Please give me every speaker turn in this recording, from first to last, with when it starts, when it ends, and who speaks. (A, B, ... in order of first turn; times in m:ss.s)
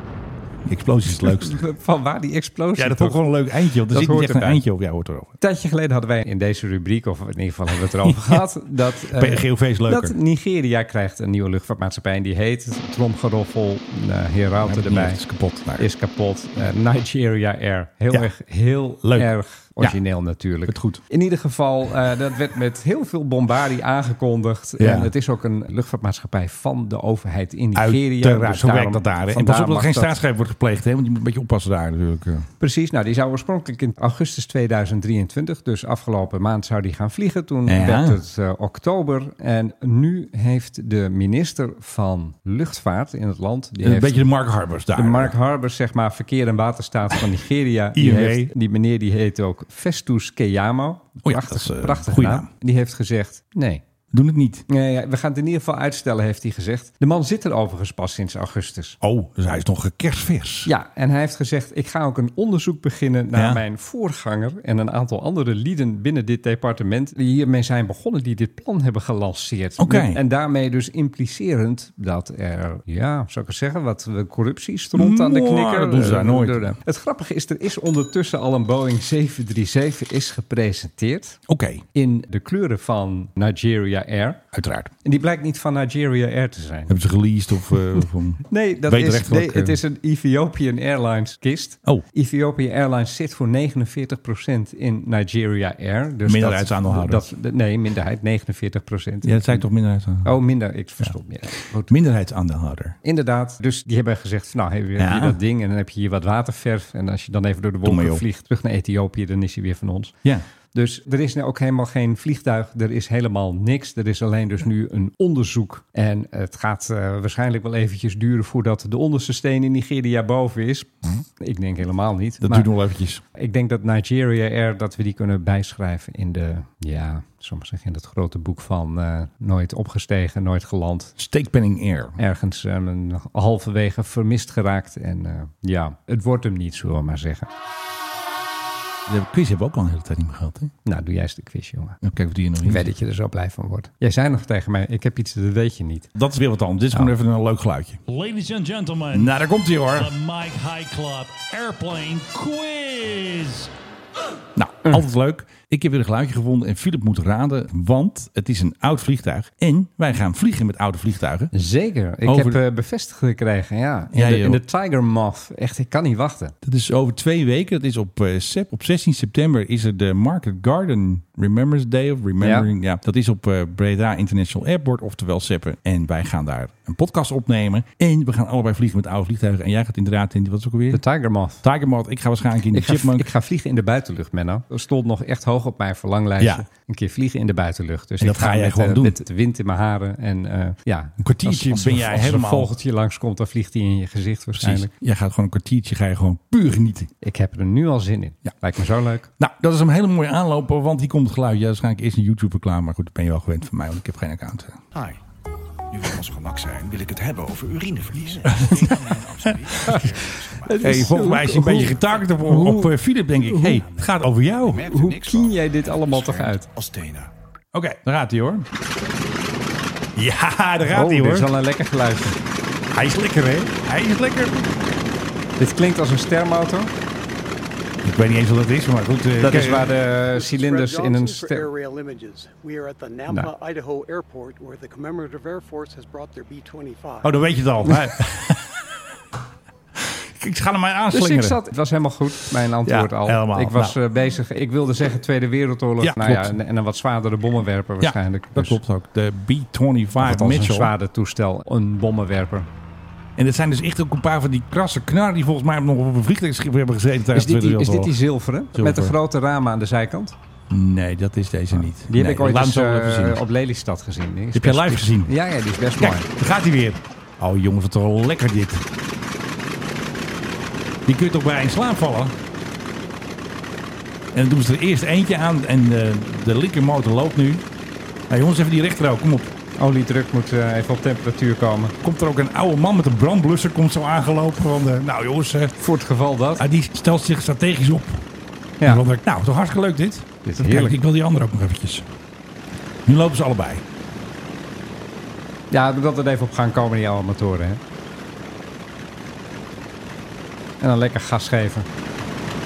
0:00.6-0:01.6 A
0:01.2-0:03.2 B
0:02.8-0:05.3 A
0:03.9-0:04.6 B
0:05.4-0:15.2 B
0:08.0-0:08.5 A
0:09.1-0:10.2 A
0:14.6-0:15.9 A
0:15.8-0:30.1 B
0:19.0-0:19.3 A
0:20.6-0:21.0 A
0:24.8-0:25.1 A
0:27.7-0:32.5 A
0:32.6-0:44.3 B
0:37.7-0:38.2 A
0:43.8-0:45.4 A
0:44.9-0:53.8 B
0:47.9-0:48.5 A
0:51.2-0:52.5 A
0:54.1-0:54.6 A
0:54.7-0:59.0 B
0:59.0-1:00.7 A
1:00.6-1:21.4 B
1:03.3-1:03.6 A
1:09.8-1:10.2 A
1:14.9-1:16.7 A
1:21.5-1:21.8 A
1:21.9-1:24.4 B
1:24.5-1:24.9 A
1:25.0-1:27.0 B
1:26.9-1:29.8 A
1:28.4-1:39.6 B
1:36.2-1:37.2 A
1:39.2-1:40.4 A
1:40.2-1:41.9 B
1:41.9-1:43.0 A
1:43.0-1:50.1 B
1:45.0-1:45.4 A
1:47.8-1:48.2 A
1:50.7-2:02.7 B
2:02.4-2:03.2 A
2:03.3-2:11.1 B
2:11.2-2:12.2 A
2:12.2-2:17.5 B
2:19.1-2:20.7 A
2:20.8-2:22.0 B
2:22.0-2:22.9 A
2:22.6-2:26.1 B
2:26.1-2:28.0 A
2:28.0-2:29.3 C
2:29.1-2:30.1 A
2:29.9-2:33.7 C
2:34.6-2:41.5 A
2:41.5-2:46.5 B
2:42.2-2:42.6 A
2:44.1-2:44.6 A
2:46.6-3:01.0 A
2:52.4-2:52.7 B
3:00.9-3:01.6 B
3:01.6-3:03.3 A
3:02.7-3:14.9 B
3:06.4-3:06.6 A
3:08.2-3:09.2 A
3:11.2-3:12.7 A
3:14.6-3:17.1 A
3:17.2-3:19.3 B
3:19.4-3:24.8 A
3:24.9-3:25.2 D
3:25.9-3:30.9 D
3:28.5-3:28.9 A
3:30.6-3:32.9 B
3:30.8-3:34.9 A
3:33.4-3:33.8 B
3:34.0-3:37.3 D
3:34.9-3:36.7 B
3:37.7-3:38.7 A
3:40.2-3:41.5 A
3:40.9-3:42.4 B
3:42.9-3:44.7 A
3:45.6-3:46.9 B
3:48.0-3:50.0 A
3:49.4-3:51.7 B
3:50.2-3:57.5 E
3:57.2-3:59.0 A
4:00.0-4:01.6 A
4:01.1-4:08.8 B
4:02.8-4:04.0 A
4:06.0-4:06.6 A
4:08.0-4:10.9 A
4:10.2-4:12.7 B
4:13.4-4:18.1 A
4:17.3-4:20.3 B
4:18.7-4:19.2 A
4:20.7-4:23.4 A
4:21.7-4:26.3 B
4:24.5-4:25.3 A
4:26.0-4:28.8 A
4:31.1-4:32.3 A
4:34.3-4:37.6 A
4:38.3-4:39.5 A
4:39.8-4:41.9 B
4:42.0-4:45.8 A
4:45.8-4:46.6 B
4:46.6-4:48.2 A
4:48.8-4:49.1 B
4:48.8-4:52.1 A
4:50.4-4:51.0 B
4:53.0-4:53.8 A
4:55.7-4:57.8 B
5:00.8-5:01.9 B